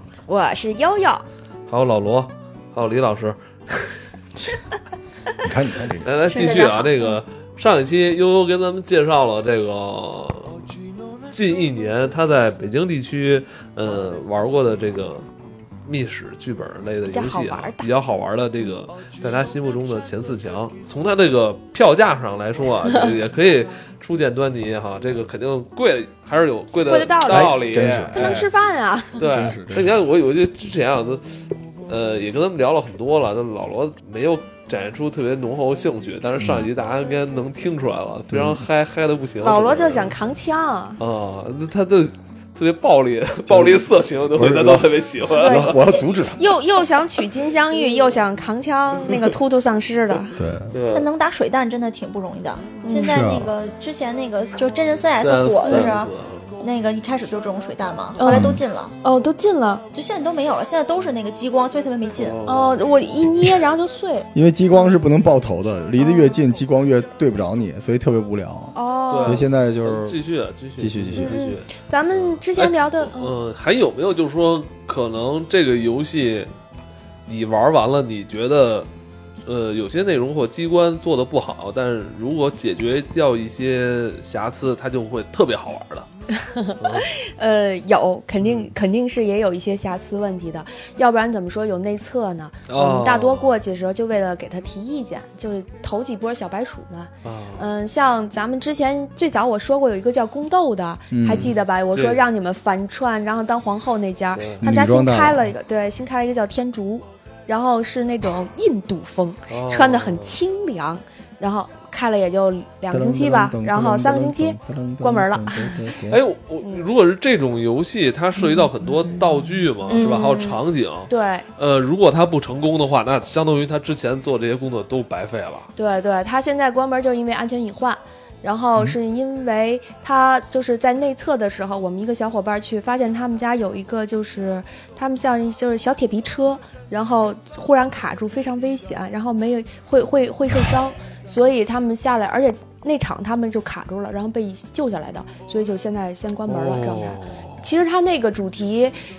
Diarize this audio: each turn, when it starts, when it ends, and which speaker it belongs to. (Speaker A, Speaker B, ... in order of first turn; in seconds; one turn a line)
Speaker A: 0.3-1.2
Speaker B: 1.7-4.0
Speaker C: 5.4-6.1
Speaker B: 6.0-10.6
Speaker A: 6.3-7.2
Speaker D: 6.4-6.7
Speaker B: 11.3-15.2
Speaker B: 15.8-28.5
Speaker A: 17.0-17.9
Speaker A: 26.9-27.6
Speaker C: 27.3-28.4
Speaker A: 28.1-29.2
Speaker B: 29.2-40.1
Speaker C: 29.2-30.0
Speaker C: 36.4-36.7
Speaker C: 38.3-38.6
Speaker A: 39.4-41.0
Speaker B: 41.0-45.9
Speaker C: 43.5-46.5
Speaker A: 45.3-50.3
Speaker C: 50.3-50.7
Speaker B: 50.7-51.1
Speaker D: 50.9-58.9
Speaker A: 52.8-53.2
Speaker C: 53.0-53.5
Speaker B: 55.2-56.5
Speaker A: 55.6-55.9
Speaker A: 58.1-59.8
Speaker C: 58.2-58.6
Speaker D: 59.9-62.4
Speaker B: 62.1-62.9
Speaker A: 62.5-64.3
Speaker C: 64.3-70.2
Speaker A: 66.0-66.4
Speaker A: 68.7-69.5
Speaker B: 69.1-71.7
Speaker C: 70.8-71.4
Speaker A: 71.2-73.3
Speaker B: 72.4-76.5
Speaker B: 77.3-78.9
Speaker B: 79.4-86.1
Speaker A: 86.3-115.8
Speaker B: 86.8-87.1
Speaker B: 88.4-88.7
Speaker B: 92.7-93.5
Speaker B: 97.2-97.6
Speaker C: 101.1-101.5
Speaker B: 101.3-102.2
Speaker B: 104.3-104.6
Speaker C: 104.6-105.5
Speaker B: 109.5-110.4
Speaker C: 112.9-116.2
Speaker B: 116.1-125.7
Speaker A: 119.9-121.5
Speaker A: 125.8-148.9
Speaker B: 146.5-147.6